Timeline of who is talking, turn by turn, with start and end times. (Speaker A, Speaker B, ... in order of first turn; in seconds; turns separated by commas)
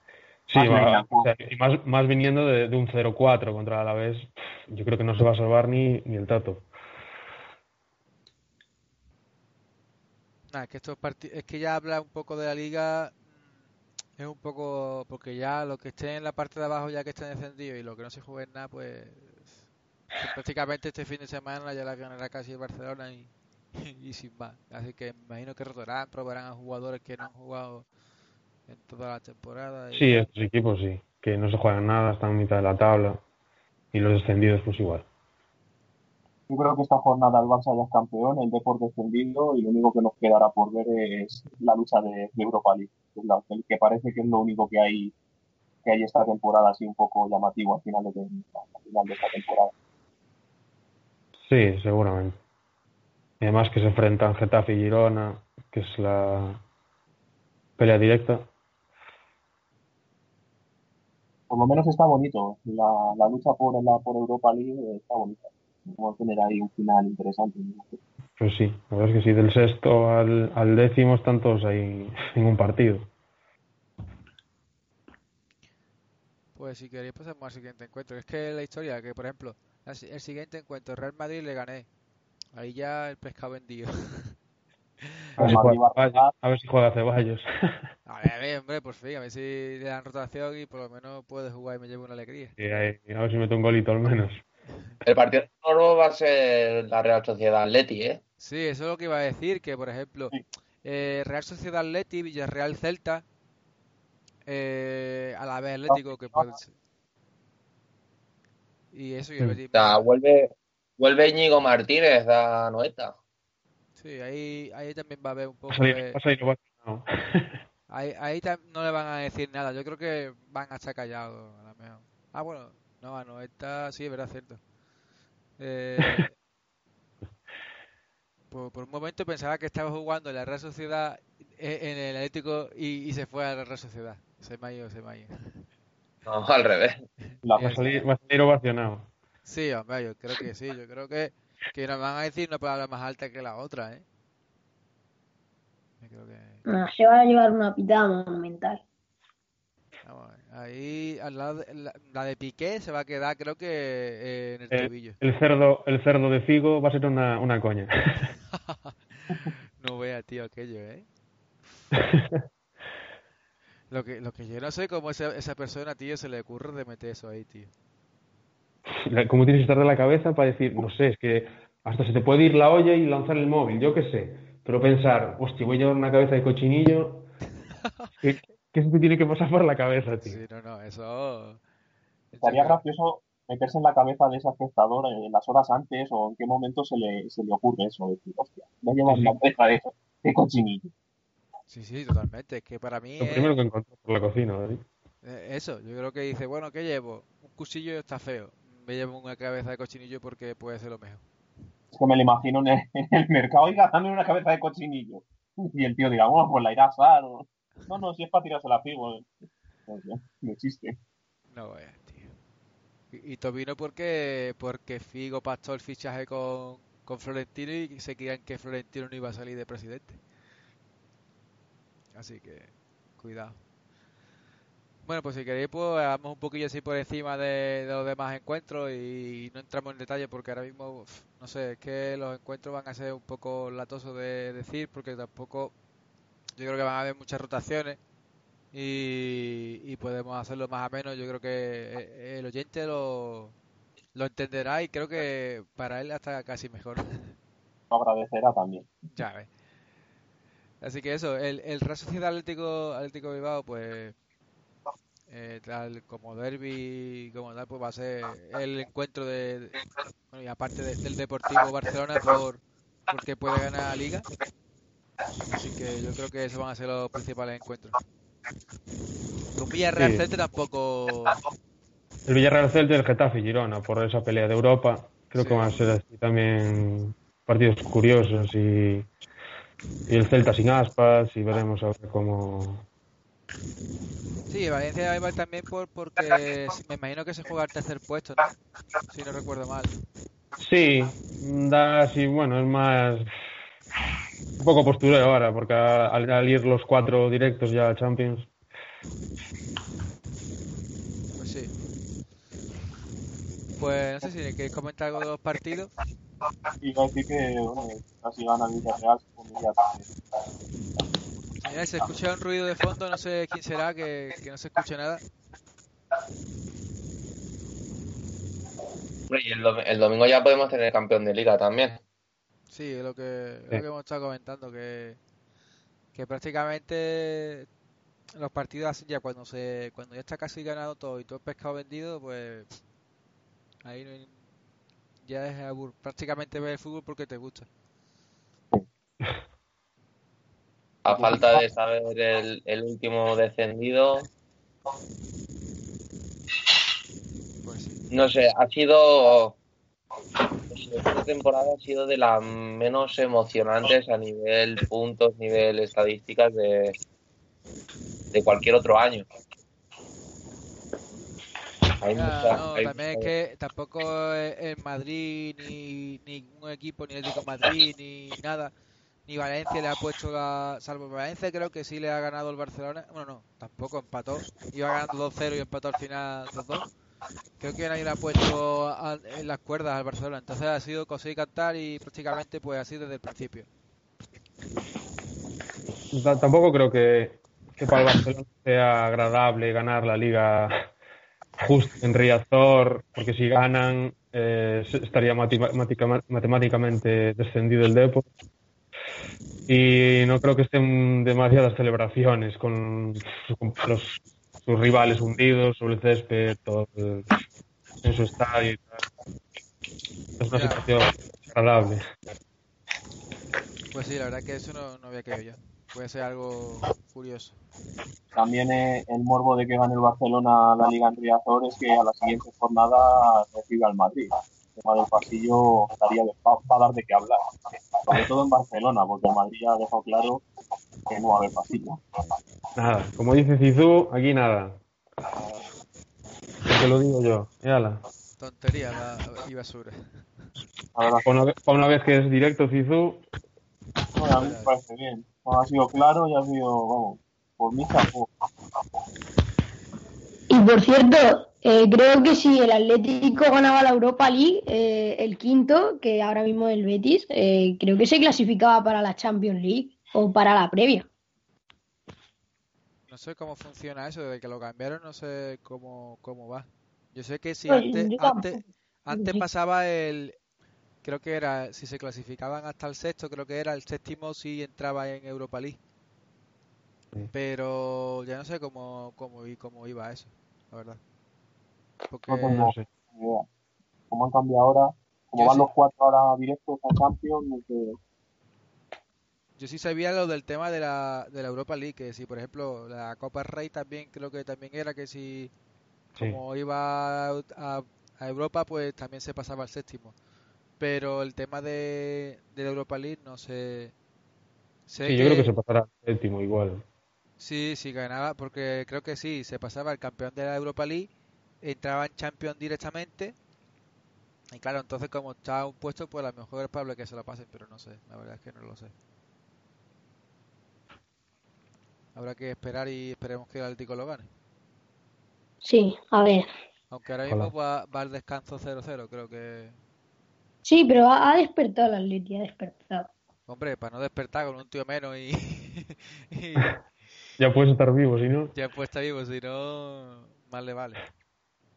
Speaker A: 0.5-6.7, Speaker B: 0.5-1.3, Speaker C: 10.5-13.2, Speaker C: 14.2-19.6, Speaker C: 20.2-27.9, Speaker C: 28.7-30.3, Speaker A: 29.9-33.2, Speaker A: 33.9-35.1, Speaker B: 36.5-45.1, Speaker B: 45.8-49.7, Speaker A: 51.4-52.4, Speaker A: 53.4-56.6, Speaker A: 57.8-58.5, Speaker B: 61.5-68.0, Speaker A: 68.4-73.1, Speaker C: 76.5-81.9, Speaker C: 82.5-84.3, Speaker B: 85.4-86.3, Speaker A: 85.4-87.5, Speaker C: 88.0-92.5, Speaker A: 92.6-94.4, Speaker D: 95.0-98.2, Speaker C: 98.4-103.2, Speaker C: 104.5-106.7, Speaker C: 108.9-110.0, Speaker D: 109.7-113.2, Speaker C: 114.0-116.2, Speaker A: 115.7-117.5, Speaker C: 117.9-124.6, Speaker C: 125.6-126.3, Speaker C: 128.5-135.7, Speaker D: 136.2-137.0, Speaker B: 137.4-138.0, Speaker C: 137.6-137.8, Speaker A: 137.6-139.1, Speaker C: 139.4-144.0, Speaker C: 146.0-146.6, Speaker E: 146.7-148.8, Speaker C: 150.0-155.2, Speaker A: 154.7-158.3, Speaker C: 158.7-161.1, Speaker A: 161.9-162.4, Speaker C: 163.9-167.7, Speaker A: 168.9-177.3, Speaker A: 178.2-180.4, Speaker C: 180.2-181.6, Speaker C: 182.3-182.8, Speaker B: 182.4-190.9, Speaker A: 189.1-189.3, Speaker C: 191.7-193.5, Speaker A: 193.2-194.8, Speaker C: 195.2-201.2, Speaker B: 201.9-209.3, Speaker B: 209.9-210.9, Speaker C: 211.5-212.3, Speaker C: 213.1-220.2, Speaker C: 222.1-223.6, Speaker C: 225.1-235.7, Speaker C: 236.6-238.0, Speaker C: 238.7-243.6, Speaker C: 244.1-247.3, Speaker B: 247.9-248.9, Speaker C: 249.1-249.5, Speaker C: 250.8-254.2, Speaker C: 255.3-259.8, Speaker C: 260.3-264.3, Speaker C: 265.5-268.0, Speaker C: 269.6-271.4, Speaker A: 270.0-270.2, Speaker A: 272.3-279.1, Speaker C: 275.3-275.7, Speaker A: 280.1-282.8, Speaker C: 284.5-288.5, Speaker C: 289.1-289.9, Speaker A: 290.6-293.3, Speaker A: 294.6-298.5, Speaker C: 301.4-301.7, Speaker C: 303.8-305.9, Speaker B: 306.8-310.1, Speaker C: 311.6-315.2, Speaker D: 319.3-322.0, Speaker C: 322.7-325.2, Speaker C: 326.1-327.7, Speaker C: 328.4-332.8, Speaker C: 333.8-334.4, Speaker C: 335.2-337.7, Speaker D: 341.0-344.3, Speaker C: 347.6-348.1, Speaker D: 348.1-349.6, Speaker D: 350.7-357.0, Speaker D: 358.3-359.2, Speaker D: 362.0-363.3, Speaker C: 362.1-368.7, Speaker C: 369.3-376.9, Speaker C: 377.6-383.7, Speaker A: 386.1-390.9, Speaker A: 391.6-398.3, Speaker A: 399.7-407.3, Speaker A: 408.0-408.9, Speaker A: 410.4-412.0, Speaker C: 410.5-410.8, Speaker C: 413.9-417.6, Speaker B: 418.3-427.4, Speaker B: 428.0-430.4, Speaker B: 431.1-432.0, Speaker A: 432.8-434.8, Speaker A: 436.6-438.0, Speaker C: 438.4-440.5, Speaker B: 440.9-441.3, Speaker A: 441.2-443.2, Speaker B: 444.1-448.3, Speaker C: 444.3-444.7, Speaker E: 450.5-461.1, Speaker C: 463.1-470.3, Speaker E: 467.7-468.6, Speaker E: 469.1-469.4, Speaker C: 471.0-475.8, Speaker C: 477.3-481.0, Speaker C: 482.1-482.7, Speaker B: 482.3-483.4, Speaker A: 482.4-482.9, Speaker B: 484.1-488.0, Speaker C: 485.4-485.7, Speaker C: 489.6-495.5, Speaker C: 496.2-500.1, Speaker C: 500.8-503.9, Speaker C: 504.9-505.5, Speaker A: 505.0-506.8, Speaker C: 507.4-511.1, Speaker C: 511.6-513.3, Speaker C: 514.5-518.9, Speaker C: 522.1-524.3, Speaker E: 525.6-526.5, Speaker C: 526.9-529.8, Speaker E: 530.6-533.1, Speaker C: 533.5-536.7, Speaker A: 537.4-538.5, Speaker C: 538.5-541.0